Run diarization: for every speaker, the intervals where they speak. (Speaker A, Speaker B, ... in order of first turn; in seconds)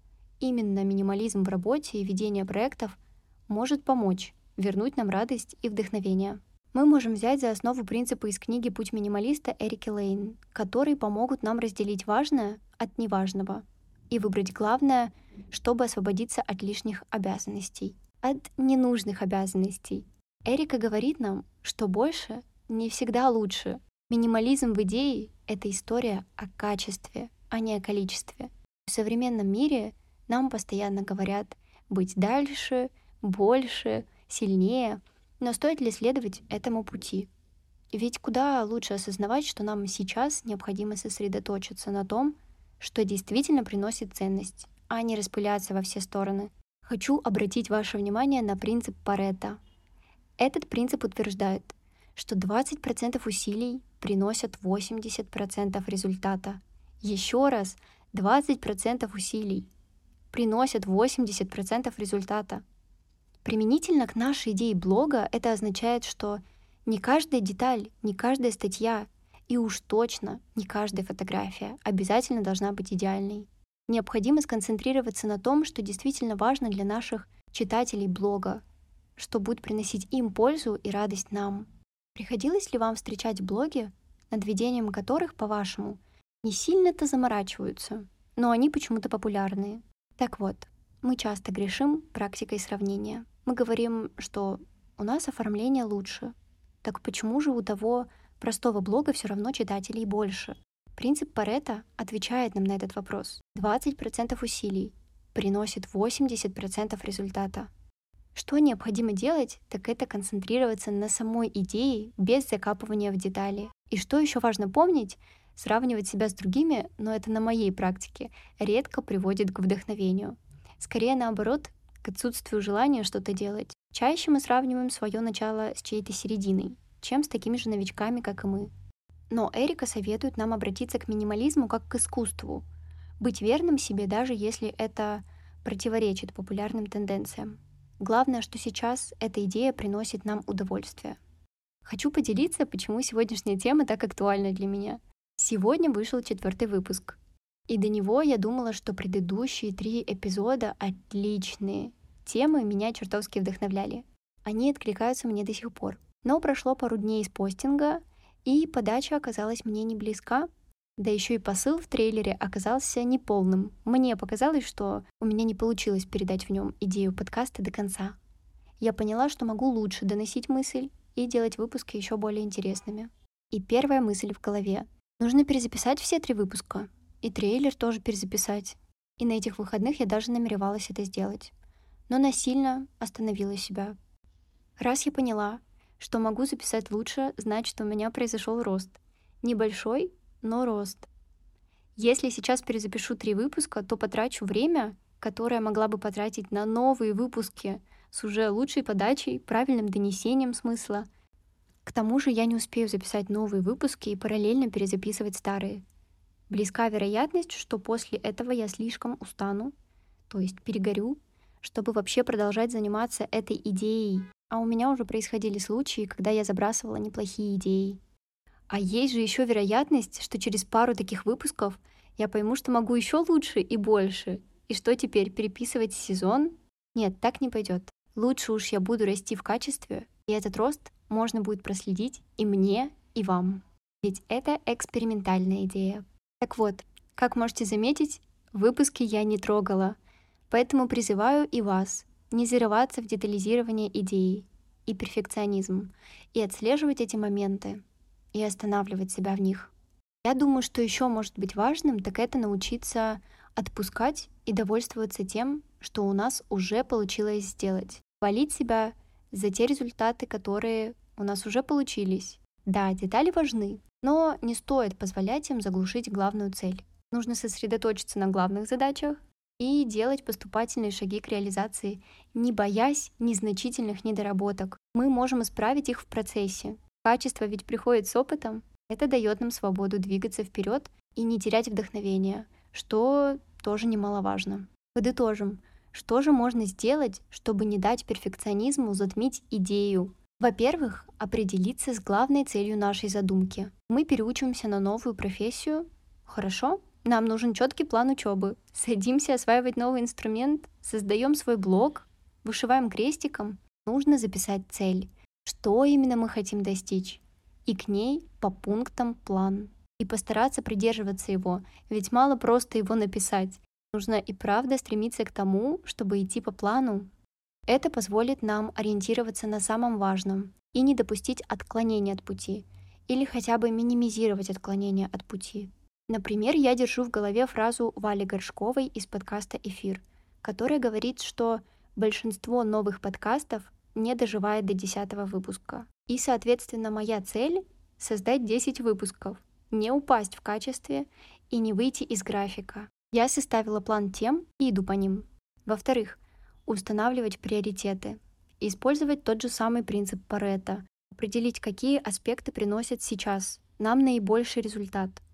Speaker A: 0.4-37.3, 37.9-49.6, 50.4-59.7, 60.3-62.6, 63.4-78.6, 79.2-107.7, 108.3-128.7, 129.3-132.7, 133.2-141.2, 141.8-168.2, 168.8-181.5, 182.1-184.0, 184.8-191.1, 192.0-201.1, 201.8-205.8, 206.5-209.7, 210.3-218.0, 218.7-240.0, 240.5-247.8, 248.3-249.7, 250.2-317.1, 317.7-355.2